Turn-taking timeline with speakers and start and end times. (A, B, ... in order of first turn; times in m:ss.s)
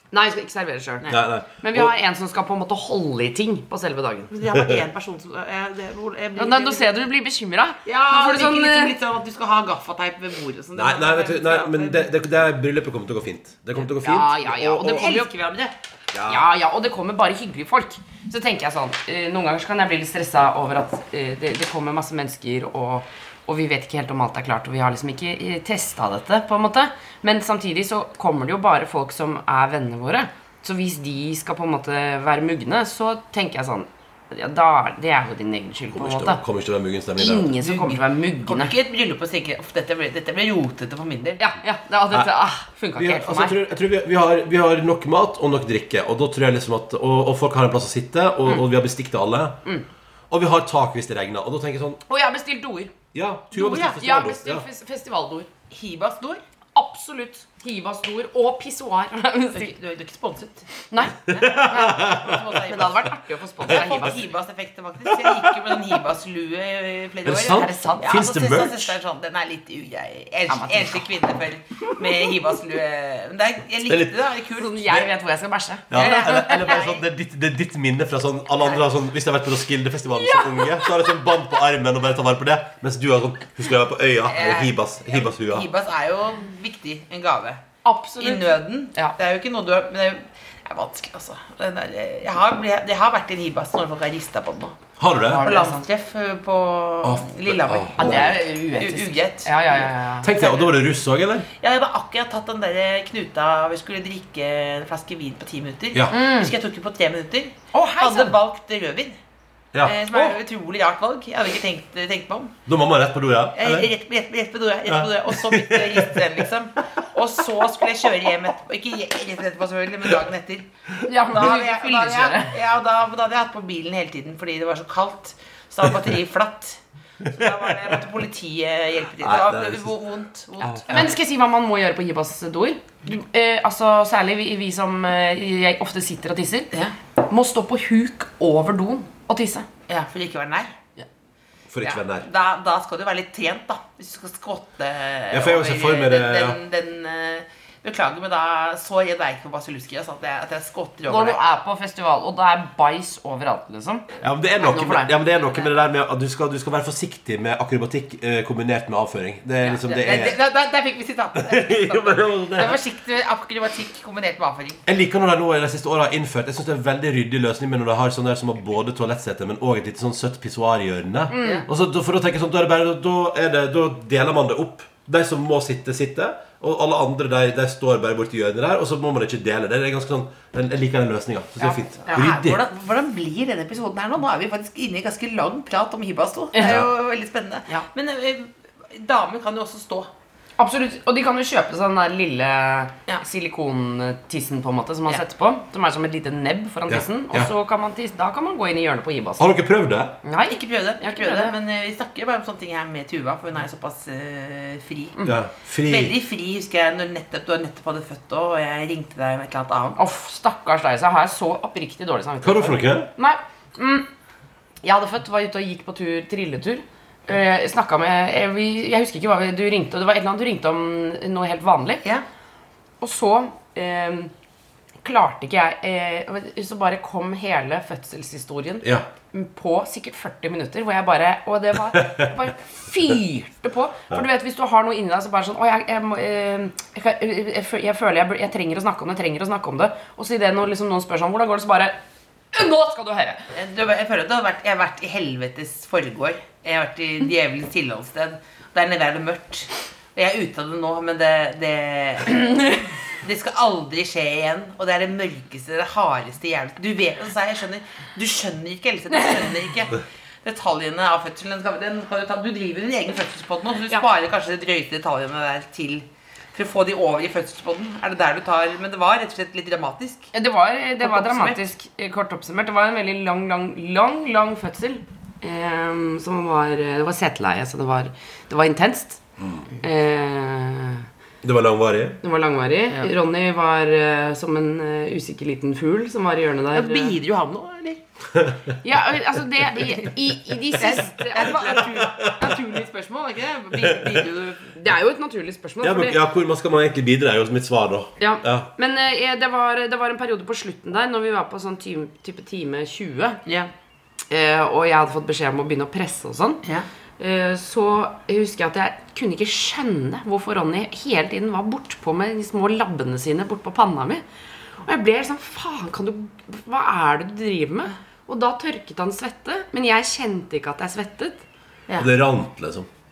0:00.1-0:04.3 A
0:01.1-0:01.9 B
0:04.3-0:07.0 C
0:04.5-0:04.8 B
0:06.4-0:09.0 A
0:07.9-0:12.1 C
0:10.8-0:14.6 B
0:13.8-0:15.3 A
0:14.4-0:15.7 C
0:16.1-0:16.4 B
0:16.3-0:36.4 A
0:35.9-0:37.5 B
0:37.2-0:38.7 A
0:37.6-0:41.4 C
0:41.4-0:43.6 A
0:43.0-0:49.6 B
0:50.3-0:52.0 B
0:52.1-0:52.9 A
0:53.1-0:54.6 B
0:53.6-0:55.5 A
0:53.6-0:54.0 C
0:55.7-0:56.4 C
0:56.8-0:59.7 A
0:59.5-1:00.7 C
1:00.9-1:02.1 A
1:01.2-1:15.1 C
1:01.3-1:02.3 B
1:02.6-1:04.2 A
1:07.2-1:09.0 B
1:07.5-1:08.2 A
1:10.5-1:11.1 A
1:13.8-1:14.3 B
1:14.6-1:16.8 A
1:15.9-1:25.7 B
1:16.0-1:17.0 C
1:20.1-1:21.2 A
1:24.3-1:27.6 C
1:27.8-1:29.2 A
1:28.2-1:34.8 C
1:35.0-1:35.5 B
1:35.3-1:35.8 A
1:35.3-1:39.9 C
1:37.0-1:38.4 B
1:38.0-1:40.6 A
1:40.2-1:41.5 B
1:41.6-1:49.2 C
1:46.1-1:46.5 A
1:47.7-1:48.4 A
1:49.7-1:50.3 B
1:49.8-1:52.6 C
1:52.7-1:53.9 B
1:53.6-2:00.7 C
1:54.9-1:56.3 B
2:01.0-2:02.6 A
2:01.3-2:11.1 C
2:09.2-2:09.9 B
2:10.6-2:10.9 B
2:10.9-2:16.7 A
2:17.3-2:19.7 A
2:19.9-2:20.8 C
2:21.7-2:22.3 B
2:21.9-2:31.4 C
2:25.3-2:26.6 B
2:31.1-2:34.0 A
2:34.2-2:40.4 B
2:34.6-2:35.7 A
2:39.8-2:44.8 C
2:41.4-2:42.8 B
2:44.9-3:02.6 B
2:51.3-2:51.7 A
3:01.6-3:02.2 A
3:02.1-3:10.1 C
3:06.5-3:06.8 A
3:06.6-3:06.9 B
3:10.6-3:19.5 A
3:16.9-3:17.5 B
3:19.4-3:20.2 B
3:20.2-3:21.6 A
3:20.4-3:25.2 C
3:25.2-3:26.2 B
3:25.9-3:30.0 C
3:30.0-3:34.1 A
3:32.4-3:33.1 B
3:34.8-3:42.0 A
3:43.0-3:44.3 A
3:45.0-4:02.0 A
4:02.5-4:03.4 A
4:03.6-4:30.3 C
4:30.3-4:39.2 A
4:31.0-4:31.6 C
4:39.4-4:39.7 B
4:39.8-4:41.1 A
4:41.4-4:42.2 B
4:42.2-4:47.2 A
4:46.7-4:48.0 C
4:48.8-4:51.8 A
4:49.8-4:50.1 C
4:50.7-4:54.7 C
4:51.6-4:52.6 B
4:53.8-4:54.2 B
4:54.7-4:56.2 A
4:55.8-4:58.7 B
4:58.2-5:03.4 A
5:03.5-5:03.7 C
5:04.3-5:06.6 A
5:07.2-5:14.2 A
5:14.9-5:21.4 A
5:22.0-5:22.9 B